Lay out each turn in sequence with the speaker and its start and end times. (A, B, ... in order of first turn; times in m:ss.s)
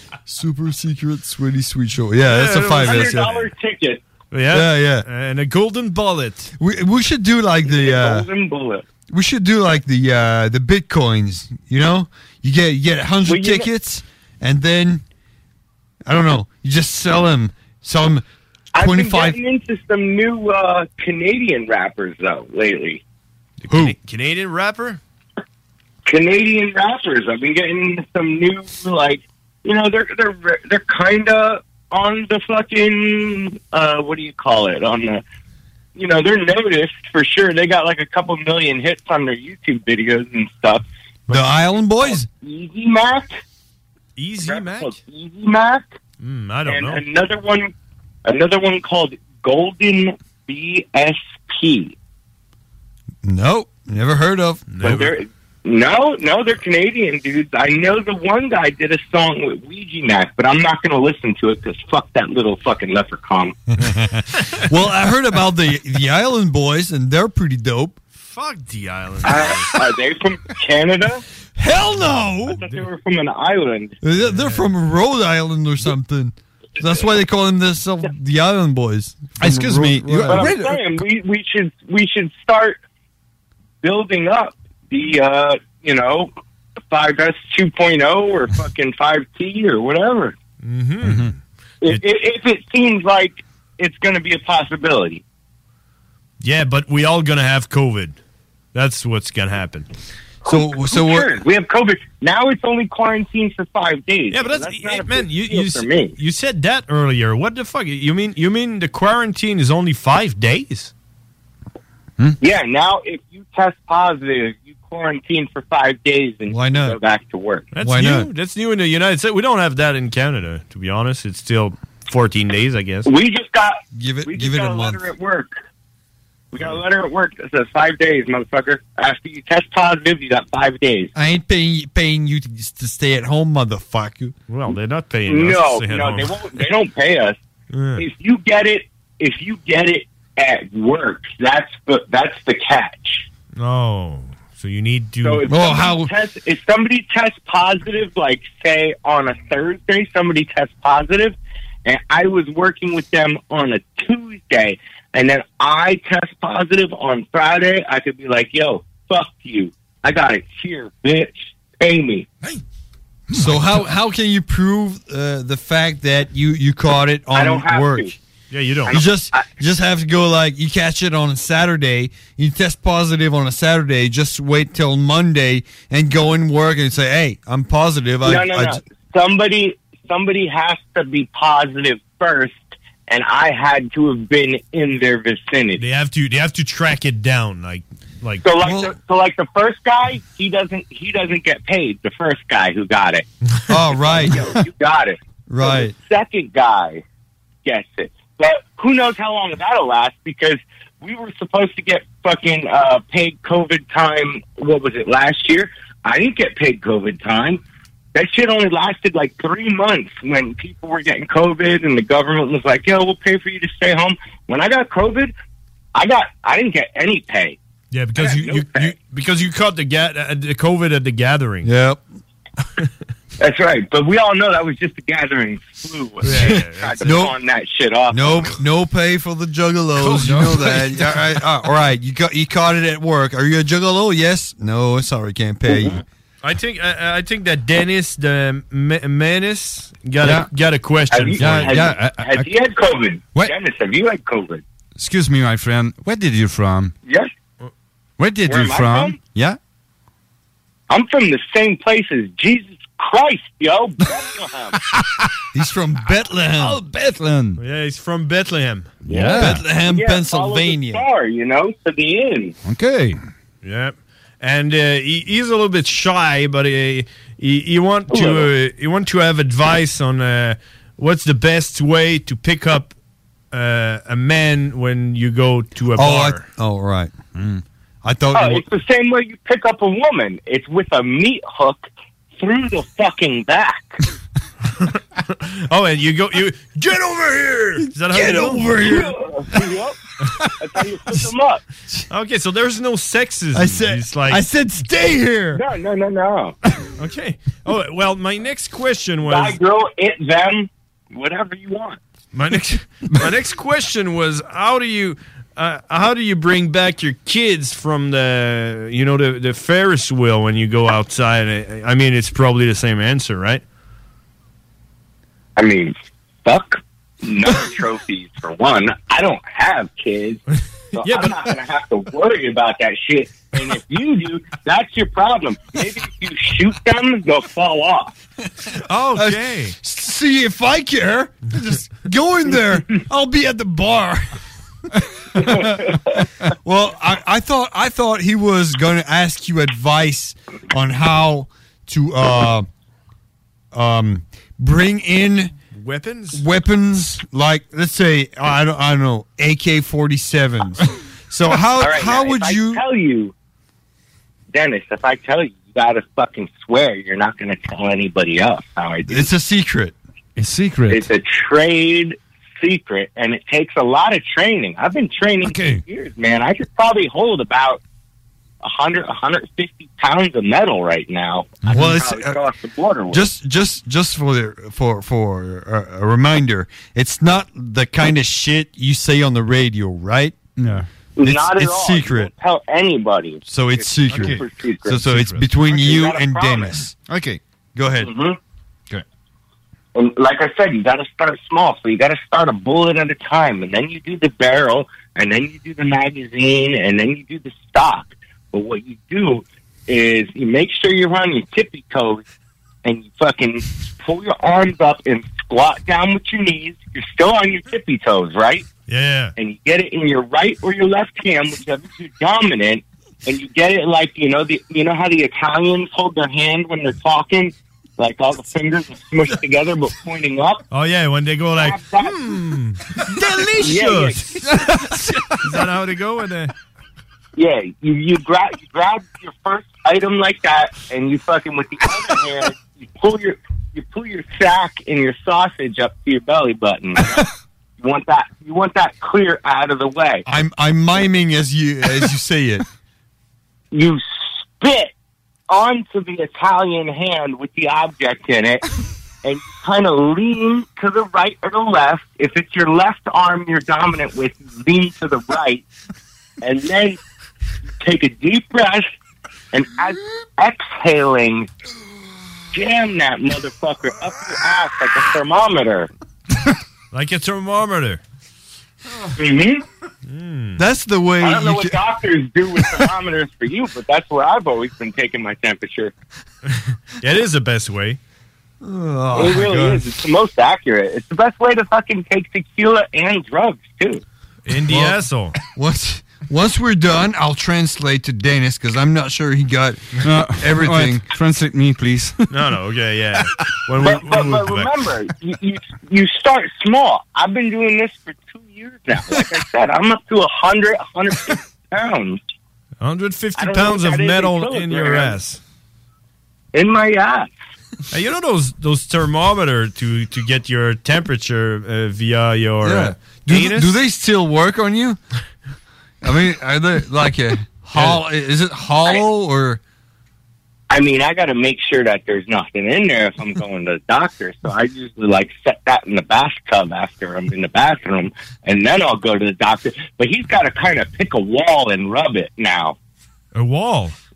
0:00.3-0:03.4 A
0:02.2-0:03.3 B
0:02.8-0:04.0 C
0:04.3-0:06.5 B
0:04.5-0:05.0 A
0:06.6-0:08.3 A
0:07.6-0:08.8 C
0:09.1-0:15.0 A
0:13.2-0:13.7 C
0:16.0-0:18.2 A
0:18.7-0:23.0 C
0:18.8-0:19.4 A
0:23.6-0:25.0 B
0:26.1-0:35.2 C
0:36.0-0:40.8 C
0:41.3-0:42.3 A
0:42.0-0:43.3 C
0:44.2-0:45.0 B
0:44.4-0:45.9 C
0:46.2-0:47.0 B
0:46.6-0:47.7 C
0:48.2-0:51.9 C
0:53.2-0:54.8 A
0:54.7-0:55.1 B
0:54.8-1:03.6 C
1:03.8-1:08.0 A
1:08.2-1:09.8 B
1:09.2-1:11.2 C
1:11.6-1:12.6 A
1:12.5-1:13.9 C
1:14.0-1:20.7 A
1:14.2-1:14.6 B
1:19.4-1:20.8 D
1:20.3-1:22.8 C
1:23.8-1:26.3 C
1:26.9-1:30.3 C
1:30.6-1:31.3 B
1:31.0-1:31.3 D
1:31.8-1:35.2 C
1:36.4-1:38.2 B
1:38.7-1:39.9 B
1:40.4-1:41.3 A
1:40.4-1:46.2 C
1:44.3-1:50.9 B
1:52.4-1:57.7 C
1:56.5-1:57.0 A
1:57.7-2:03.1 B
1:57.8-1:58.3 A
2:03.0-2:05.6 C
2:03.9-2:05.0 A
2:06.5-2:11.1 C
2:11.1-2:14.3 A
2:14.5-2:16.6 B
2:15.3-2:17.4 C
2:17.7-2:18.0 B
2:18.0-2:23.3 C
2:23.6-2:25.5 B
2:25.2-2:42.3 C
2:25.5-2:26.1 A
2:43.3-2:43.8 D
2:43.3-2:48.1 A
2:47.3-2:48.1 C
2:48.5-2:49.0 B
2:48.8-2:49.5 C
2:48.9-2:58.8 A
2:58.2-3:05.8 C
3:05.8-3:08.5 B
3:08.4-3:13.2 C
3:08.6-3:08.9 A
3:13.7-3:14.6 A
3:14.0-3:17.0 C
3:15.5-3:15.9 A
3:17.6-3:27.6 C
3:28.1-3:35.3 C
3:35.9-3:37.6 C
3:37.9-3:41.7 B
3:38.2-3:38.9 C
3:41.6-3:42.0 A
3:43.4-3:48.6 C
3:46.2-3:47.1 B
3:46.2-3:47.3 A
3:48.1-3:56.0 A
3:50.0-3:51.2 D
3:56.4-4:01.9 B
4:00.2-4:00.5 D
4:01.1-4:04.6 C
4:01.4-4:02.5 D
4:05.0-4:06.9 D
4:08.2-4:09.6 D
4:08.4-4:09.2 C
4:10.9-4:14.8 C
4:15.5-4:16.8 A
4:16.6-4:17.6 D
4:17.6-4:18.9 B
4:19.0-4:19.6 D
4:19.1-4:22.6 C
4:19.3-4:21.0 A
4:22.6-4:23.2 D
4:23.6-4:32.9 B
4:28.1-4:28.5 C
4:33.5-4:36.4 B
4:36.0-4:37.1 A
4:37.4-4:37.6 D
4:38.0-4:38.6 A
4:38.3-4:44.0 C
4:44.8-4:48.7 B
4:48.0-4:49.2 A
4:48.8-4:50.0 C
4:50.6-4:51.6 C
4:52.1-4:54.4 B
4:53.5-4:55.6 A
4:55.6-4:56.6 C
4:57.0-4:59.6 B
4:59.2-5:02.0 C
5:02.3-5:13.6 B
5:15.6-5:20.4 C
5:20.9-5:21.4 B
5:20.9-5:28.1 C
5:28.8-5:29.7 B
5:29.2-5:34.3 A
5:35.3-5:42.7 A
5:35.4-5:36.2 C
5:43.7-5:45.5 A
5:45.7-5:46.4 B
5:46.3-5:52.8 A
5:51.8-5:53.3 C
5:54.5-5:59.3 C
5:59.1-5:59.9 A
6:00.4-6:01.1 D
6:00.9-6:07.8 C
6:05.4-6:05.8 D
6:08.6-6:13.3 C
6:11.7-6:12.4 A
6:13.1-6:20.3 A
6:20.6-6:20.9 D
6:21.2-6:25.0 C
6:21.2-6:22.3 A
6:23.5-6:26.9 A
6:25.0-6:25.4 B
6:25.6-6:26.8 C
6:27.1-6:27.4 D
6:27.7-6:28.1 A
6:28.0-6:28.4 C
6:29.9-6:42.2 C
6:42.8-6:48.6 C
6:48.9-6:49.3 B
6:49.4-7:00.6 C
7:00.7-7:04.4 B
7:01.6-7:02.2 C
7:03.6-7:04.3 C
7:04.7-7:05.2 A
7:05.4-7:06.5 B
7:07.4-7:17.3 C
7:17.8-7:20.2 C
7:20.3-7:22.6 A
7:23.7-7:24.9 C
7:25.5-7:28.6 C
7:29.2-7:35.6 C
7:36.4-7:37.0 C
7:37.8-7:38.9 C
7:39.5-7:41.5 C
7:42.5-7:45.9 C
7:46.9-7:48.0 B
7:49.2-7:49.6 C
7:50.1-7:50.6 B
7:50.6-7:51.8 A
7:51.2-7:55.9 C
7:56.5-7:58.0 B
7:58.6-7:59.9 A
7:59.1-8:04.0 C
8:04.4-8:05.4 B
8:04.7-8:11.0 A
8:10.0-8:12.3 D
8:12.3-8:14.7 B
8:13.8-8:22.2 C
8:22.8-8:25.4 B
8:23.4-8:25.2 C
8:26.5-8:27.3 C
8:27.9-8:33.8 B
8:32.6-8:35.0 A
8:36.0-8:39.6 A
8:37.7-8:38.0 B
8:40.7-8:52.8 C
8:53.3-8:54.0 B